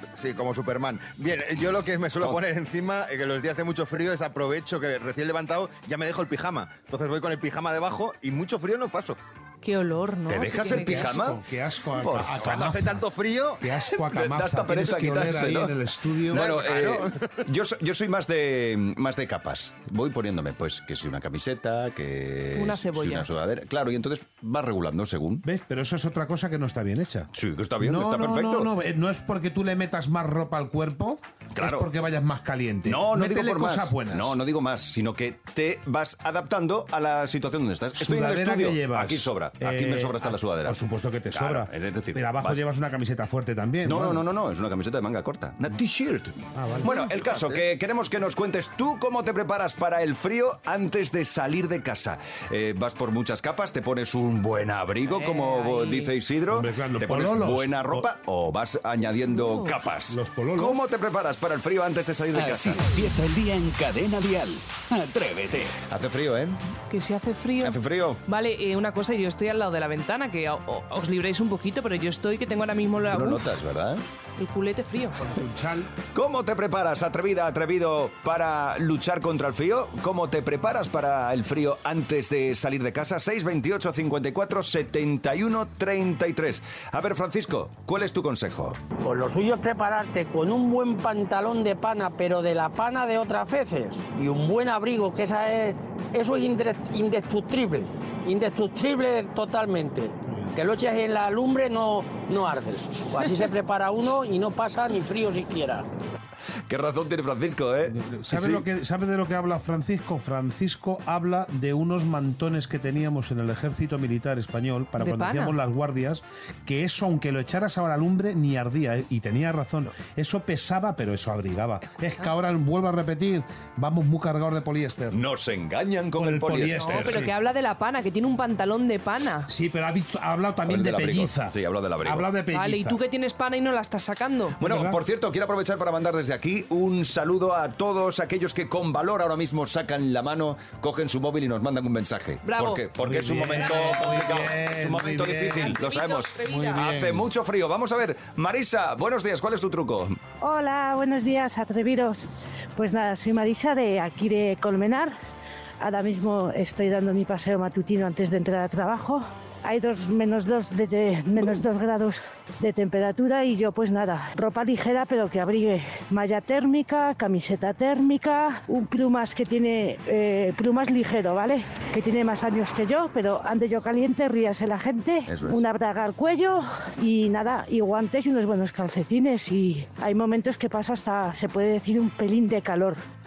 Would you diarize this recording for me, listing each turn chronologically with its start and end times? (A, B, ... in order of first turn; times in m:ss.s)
0:00.1-0:09.2 A
0:09.6-0:11.2 B
0:10.3-0:11.4 C
0:10.8-0:13.0 D
0:12.0-0:12.7 C
0:12.4-0:13.7 A
0:13.6-0:16.5 D
0:14.0-0:25.4 C
0:16.3-0:17.2 A
0:22.5-0:23.3 B
0:25.4-0:34.4 D
0:27.3-0:28.7 C
0:31.5-0:31.9 C
0:32.8-0:40.8 C
0:38.0-0:44.2 D
0:41.3-0:42.6 C
0:43.8-1:02.9 C
0:46.5-0:47.4 D
0:55.0-0:56.2 B
0:56.5-0:58.1 D
0:59.3-0:59.7 B
1:00.1-1:00.8 D
1:02.3-1:05.8 E
1:05.9-1:06.6 C
1:06.9-1:13.6 B
1:07.6-1:08.2 C
1:13.1-1:14.0 C
1:14.4-1:15.4 B
1:15.3-1:15.9 D
1:16.1-1:28.8 C
1:29.0-1:45.9 F
1:46.7-1:48.6 C
1:47.9-2:05.2 D
1:55.0-1:55.6 B
2:05.1-2:07.3 C
2:06.2-2:07.3 D
2:06.7-2:09.5 B
2:09.4-2:13.0 D
2:10.6-2:12.3 C
2:12.5-2:14.6 B
2:14.6-2:30.2 C
2:14.6-2:15.0 D
2:22.4-2:22.9 B
2:23.0-2:25.8 D
2:23.5-2:24.4 B
2:25.6-2:26.9 B
2:26.4-2:27.3 D
2:30.4-2:35.1 G
2:35.8-3:03.0 G
2:55.3-2:55.6 C